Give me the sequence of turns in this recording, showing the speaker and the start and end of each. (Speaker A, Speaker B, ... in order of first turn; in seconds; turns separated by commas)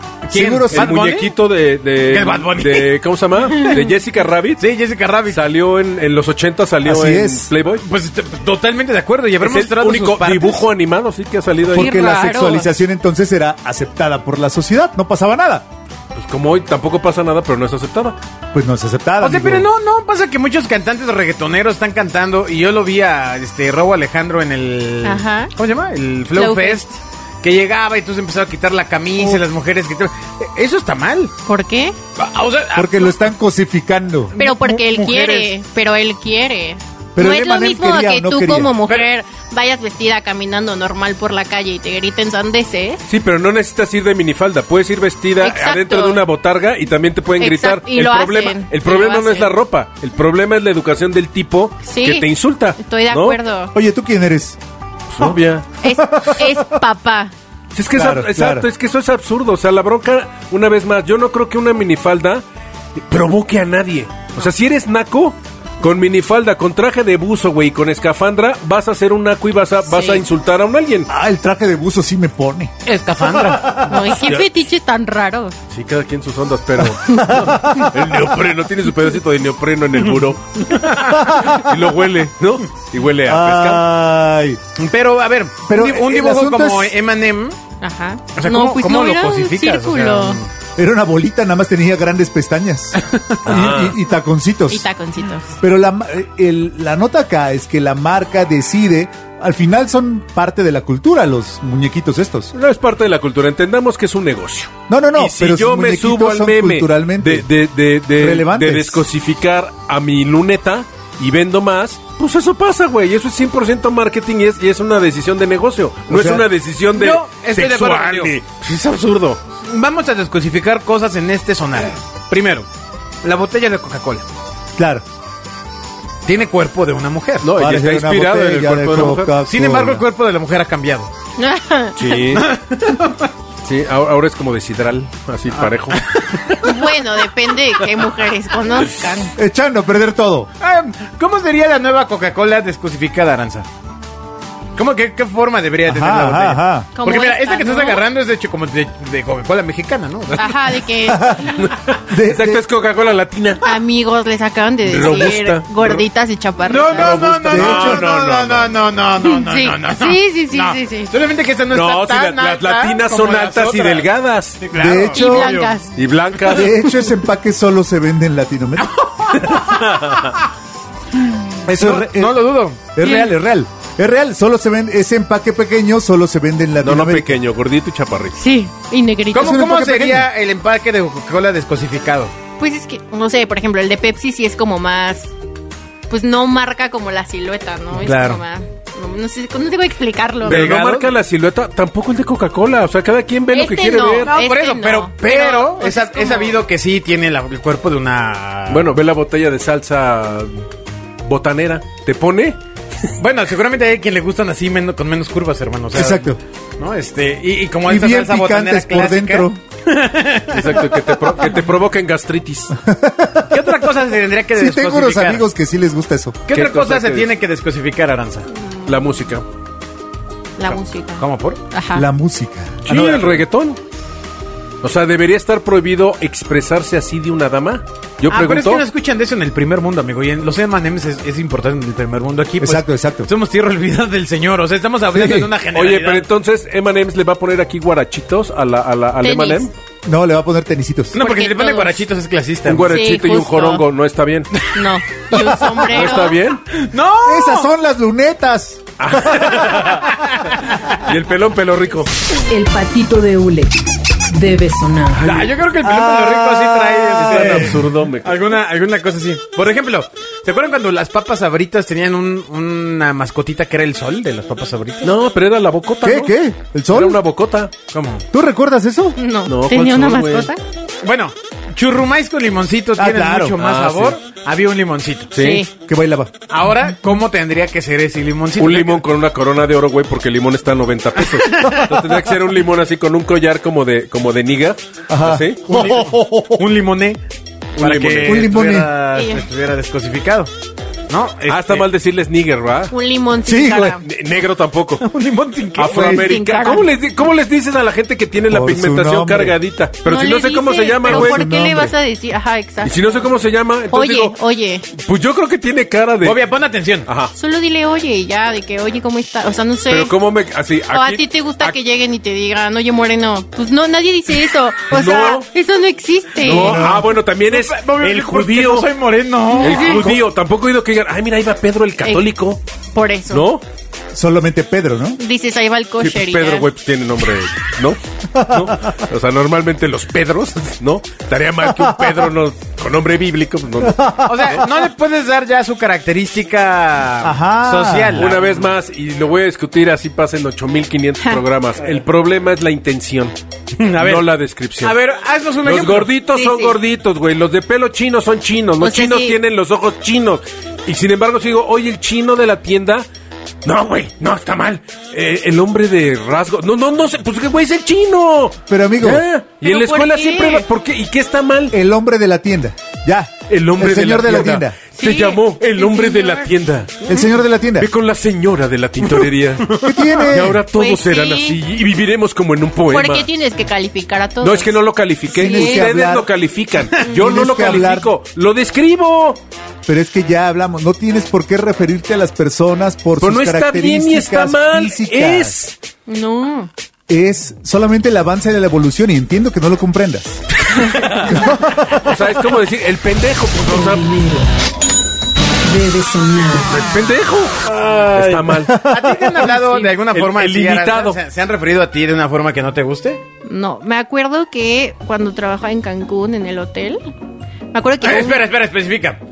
Speaker A: 0.2-1.3, Speaker B: 0.3-1.0, Speaker C: 0.7-4.7, Speaker A: 2.1-3.0, Speaker A: 4.6-5.4, Speaker C: 5.3-7.8, Speaker B: 6.8-7.5, Speaker A: 7.8-10.7, Speaker C: 9.4-12.0, Speaker B: 11.7-15.7, Speaker D: 11.7-12.7, Speaker C: 16.1-18.2, Speaker B: 18.5-19.7, Speaker A: 19.2-31.3, Speaker D: 25.0-25.5, Speaker D: 26.3-26.8, Speaker D: 31.5-32.0, Speaker A: 32.2-33.2, Speaker B: 32.7-34.4, Speaker A: 34.4-35.5, Speaker D: 34.4-43.0, Speaker B: 37.2-38.7, Speaker A: 38.8-39.1, Speaker C: 43.1-53.4, Speaker D: 45.4-46.2, Speaker D: 47.4-49.5, Speaker D: 51.9-53.7, Speaker B: 53.7-54.6, Speaker C: 55.1-55.7, Speaker D: 55.8-57.3, Speaker B: 55.9-56.7, Speaker C: 57.7-62.4, Speaker B: 58.0-58.7, Speaker C: 63.0-71.1, Speaker D: 69.9-70.2, Speaker B: 71.1-72.7, Speaker A: 72.8-73.8, Speaker B: 73.3-74.1, Speaker D: 73.8-75.5, Speaker C: 74.2-74.5, Speaker C: 75.7-83.8, Speaker B: 77.0-78.1, Speaker A: 80.8-81.0, Speaker B: 81.2-81.7, Speaker B: 83.3-84.6, Speaker A: 84.8-87.6, Speaker B: 85.7-86.9, Speaker D: 87.8-90.4, Speaker A: 88.3-90.5, Speaker B: 90.8-94.9, Speaker C: 93.5-94.0, Speaker D: 94.7-95.5, Speaker B: 95.6-102.5, Speaker C: 102.5-119.4, Speaker B: 104.9-107.5, Speaker B: 108.2-109.0, Speaker B: 116.1-116.5, Speaker A: 116.9-118.3, Speaker A: 119.7-122.7, Speaker A: 123.2-124.2, Speaker B: 124.8-125.0, Speaker A: 126.2-127.5, Speaker C: 127.4-129.3, Speaker B: 127.6-130.1, Speaker A: 129.4-131.1, Speaker D: 131.4-132.0, Speaker C: 132.0-132.5, Speaker A: 132.3-133.3, Speaker C: 133.7-136.0, Speaker A: 135.6-136.9, Speaker D: 136.6-139.3, Speaker B: 139.3-140.5, Speaker A: 140.6-143.7, Speaker A: 144.8-150.7, Speaker B: 145.9-146.9, Speaker D: 146.9-148.0, Speaker D: 150.3-151.6, Speaker B: 151.1-151.6, Speaker C: 151.6-153.7, Speaker B: 152.1-152.6, Speaker D: 153.6-157.2, Speaker C: 154.8-156.1, Speaker A: 156.7-164.1, Speaker C: 156.9-158.8, Speaker B: 157.5-158.1, Speaker D: 159.2-161.1, Speaker C: 161.7-164.6, Speaker A: 164.6-165.7, Speaker B: 164.8-165.7, Speaker D: 165.1-165.9, Speaker C: 165.9-166.8, Speaker B: 166.5-168.9, Speaker A: 168.8-170.1, Speaker C: 169.4-170.4, Speaker B: 171.7-177.4, Speaker A: 171.7-172.8, Speaker D: 173.0-173.3, Speaker C: 176.8-178.4, Speaker D: 178.4-179.6, Speaker A: 179.3-182.3, Speaker B: 179.3-180.3, Speaker D: 182.6-185.3, Speaker D: 186.1-190.7, Speaker A: 187.9-188.4, Speaker A: 190.4-191.1, Speaker C: 190.4-194.3, Speaker D: 193.5-196.6, Speaker A: 194.2-198.9, Speaker C: 198.7-200.6, Speaker C: 201.3-203.1, Speaker A: 203.2-211.1, Speaker B: 205.9-206.4, Speaker B: 207.8-209.6, Speaker C: 210.5-212.7, Speaker B: 212.8-213.9, Speaker A: 213.5-215.4, Speaker B: 214.6-216.4, Speaker A: 216.5-218.5, Speaker C: 216.5-217.3, Speaker D: 218.6-218.9, Speaker C: 218.9-219.4, Speaker D: 220.6-222.1, Speaker A: 221.2-221.6, Speaker B: 221.9-223.4, Speaker C: 222.8-223.8, Speaker C: 224.8-228.8, Speaker A: 228.3-236.3, Speaker B: 232.6-233.3, Speaker B: 235.1-235.5, Speaker C: 235.7-239.7, Speaker D: 239.2-239.7, Speaker B: 240.1-241.2, Speaker A: 241.1-242.9, Speaker D: 241.2-242.0, Speaker C: 242.7-244.7, Speaker D: 242.9-243.8, Speaker D: 244.7-246.4, Speaker A: 245.3-246.2, Speaker C: 245.9-246.7, Speaker A: 246.8-247.7, Speaker B: 247.2-249.8, Speaker C: 249.0-250.3, Speaker A: 250.1-250.6, Speaker C: 250.9-252.1, Speaker E: 252.5-253.8, Speaker E: 254.3-255.4, Speaker C: 255.2-255.5, Speaker A: 255.2-265.1, Speaker B: 255.8-257.9, Speaker C: 257.2-258.4, Speaker C: 265.0-266.3, Speaker B: 266.0-267.2, Speaker C: 266.9-267.7, Speaker A: 267.9-268.2, Speaker B: 268.3-269.2, Speaker D: 269.2-270.6, Speaker C: 269.5-270.5, Speaker A: 271.0-275.3, Speaker B: 273.0-273.6, Speaker C: 273.6-274.2, Speaker C: 275.3-275.6, Speaker D: 275.4-275.7, Speaker B: 275.9-276.3, Speaker A: 276.5-279.0, Speaker C: 278.6-285.6, Speaker A: 281.3-281.8, Speaker B: 285.1-286.7, Speaker A: 285.7-287.2, Speaker C: 287.8-288.6, Speaker A: 287.8-290.5, Speaker B: 288.2-288.9, Speaker D: 289.1-289.5, Speaker A: 291.1-291.9, Speaker C: 291.5-292.9, Speaker D: 292.9-294.0, Speaker B: 293.5-294.0, Speaker C: 293.9-295.1, Speaker A: 295.0-296.2, Speaker C: 295.8-301.5, Speaker D: 296.0-296.9, Speaker B: 298.5-299.6, Speaker D: 300.1-303.2, Speaker B: 301.1-301.9, Speaker C: 302.8-304.4, Speaker D: 303.9-304.8, Speaker C: 304.9-306.5, Speaker A: 306.2-307.1, Speaker C: 307.1-307.3, Speaker D: 307.3-310.1, Speaker C: 309.9-311.8, Speaker D: 310.9-316.8, Speaker C: 314.9-315.5, Speaker C: 316.4-318.9, Speaker B: 316.5-317.1, Speaker A: 316.7-320.2, Speaker C: 319.5-322.6, Speaker D: 319.6-320.0, Speaker D: 322.9-323.5, Speaker C: 323.3-323.6, Speaker B: 324.1-325.2, Speaker D: 325.2-326.7, Speaker C: 326.0-334.6, Speaker B: 328.3-329.0, Speaker B: 331.6-332.2, Speaker B: 333.8-334.6, Speaker A: 334.2-338.6, Speaker B: 337.2-338.4, Speaker C: 338.1-343.3, Speaker A: 343.8-344.3, Speaker C: 343.9-345.0, Speaker A: 344.8-346.1, Speaker C: 345.6-353.1, Speaker D: 346.3-346.8, Speaker D: 348.8-349.4, Speaker C: 353.6-361.8, Speaker B: 358.7-359.2, Speaker D: 359.6-360.7, Speaker B: 361.7-364.8, Speaker C: 363.5-367.1, Speaker D: 365.0-366.5, Speaker B: 367.1-367.9, Speaker C: 367.8-373.3, Speaker A: 369.7-370.2, Speaker B: 369.8-370.6, Speaker D: 370.7-371.6, Speaker D: 372.9-374.8, Speaker C: 374.4-379.4, Speaker B: 375.3-376.3, Speaker D: 375.3-375.9, Speaker B: 377.0-378.1, Speaker B: 379.9-385.6, Speaker C: 383.2-385.8, Speaker D: 386.1-386.7, Speaker B: 387.1-390.7, Speaker C: 390.9-394.1, Speaker B: 391.2-392.1, Speaker E: 393.7-394.5, Speaker E: 395.6-396.8, Speaker C: 396.7-398.9, Speaker A: 397.8-403.2, Speaker B: 398.6-399.5, Speaker C: 399.5-401.2, Speaker D: 403.4-407.0, Speaker D: 407.7-408.5, Speaker A: 408.0-409.2